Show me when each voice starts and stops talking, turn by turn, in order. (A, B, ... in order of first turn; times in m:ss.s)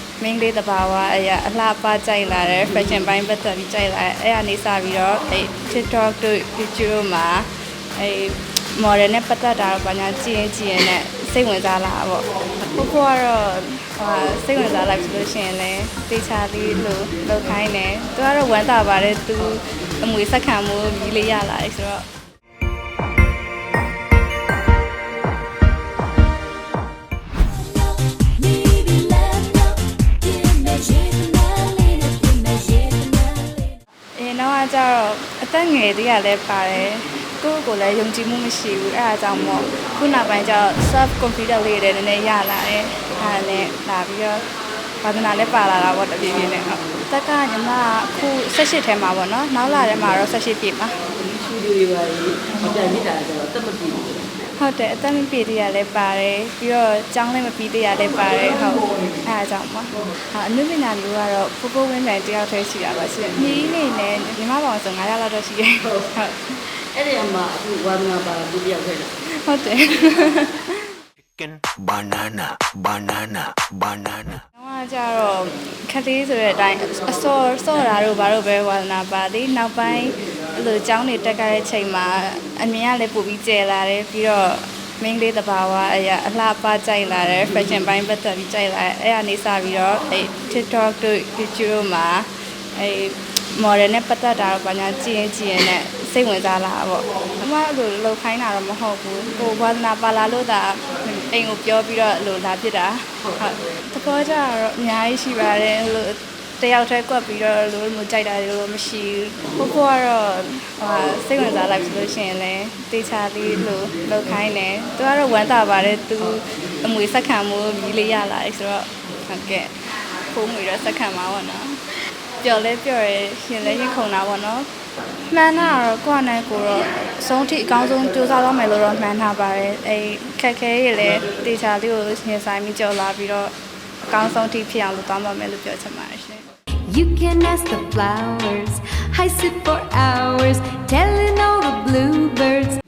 0:00.2-0:22.1 A
0:27.6-0:33.8 B
0:34.2-0:44.4 A
0:45.0-0:51.0 A
0:51.2-0:54.2 C
0:54.6-1:06.7 A
1:06.9-1:09.1 C
1:09.3-1:11.0 A
1:11.4-1:14.4 D
1:14.5-2:01.8 A
2:02.4-2:04.7 A
2:05.3-2:13.5 A
2:14.0-2:16.5 A
2:16.8-2:22.8 B